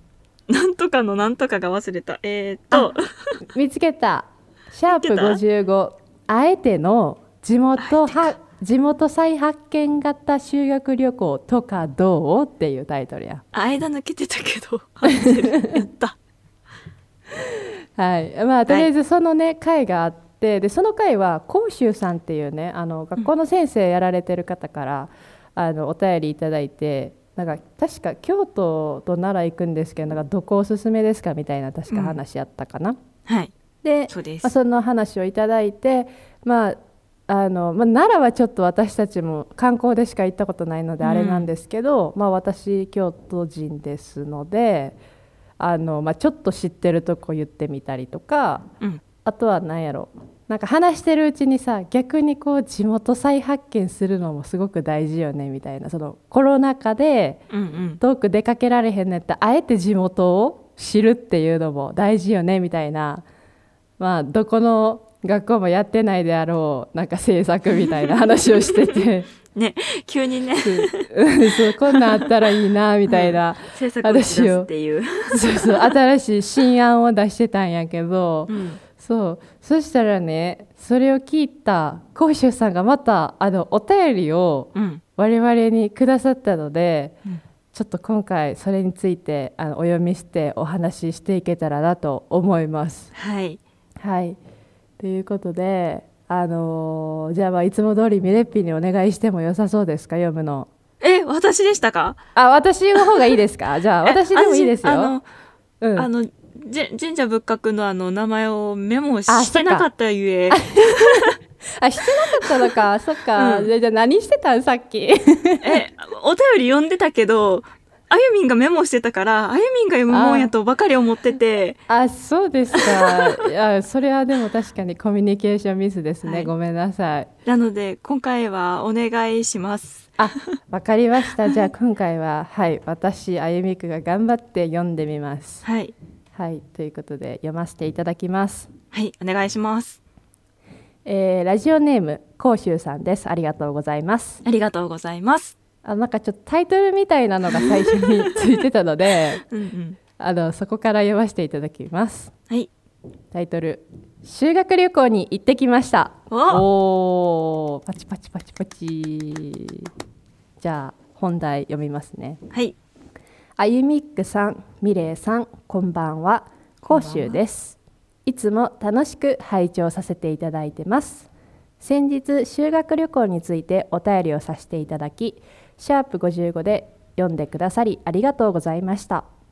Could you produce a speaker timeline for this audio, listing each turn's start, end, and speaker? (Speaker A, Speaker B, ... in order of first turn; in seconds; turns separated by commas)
Speaker A: 0.5-3.4, Speaker B: 3.5-13.4, Speaker A: 4.9-5.4, Speaker A: 7.8-8.3, Speaker A: 13.5-16.2, Speaker B: 15.1-15.8, Speaker B: 17.3-33.0, Speaker A: 31.9-32.2, Speaker A: 33.3-33.5, Speaker B: 33.8-36.8, Speaker A: 34.1-34.5, Speaker B: 37.3-45.0, Speaker A: 41.0-41.5, Speaker B: 45.6-48.7, Speaker B: 49.2-57.4, Speaker A: 57.5-58.0, Speaker B: 58.0-63.2, Speaker B: 64.0-69.3, Speaker A: 67.8-68.1, Speaker A: 68.7-72.4, Speaker B: 70.6-74.7, Speaker A: 73.1-75.9, Speaker B: 75.3-87.2, Speaker A: 78.5-78.8, Speaker A: 84.7-85.0, Speaker B: 87.7-93.1, Speaker A: 93.1-93.6, Speaker B: 94.0-94.4, Speaker B: 95.0-100.7, Speaker A: 101.0-102.2, Speaker B: 102.3-105.1, Speaker A: 104.0-105.2, Speaker B: 105.8-106.1, Speaker A: 106.0-111.3, Speaker B: 109.3-109.9, Speaker B: 110.5-115.8, Speaker A: 112.3-112.7, Speaker A: 113.3-113.7, Speaker A: 115.6-121.8, Speaker B: 120.1-120.5, Speaker B: 121.9-127.3, Speaker A: 122.7-123.3, Speaker A: 126.2-126.5, Speaker A: 127.4-130.2, Speaker B: 130.2-135.6, Speaker A: 135.6-135.9, Speaker B: 136.3-138.7, Speaker A: 138.9-140.0, Speaker B: 141.0-144.4, Speaker A: 144.4-145.6, Speaker B: 145.8-149.4, Speaker A: 147.5-148.4, Speaker A: 149.4-150.0, Speaker B: 150.2-152.3, Speaker B: 153.3-159.9, Speaker A: 156.3-156.6, Speaker B: 160.6-162.4, Speaker B: 163.6-171.3, Speaker A: 166.8-167.4, Speaker B: 171.8-179.2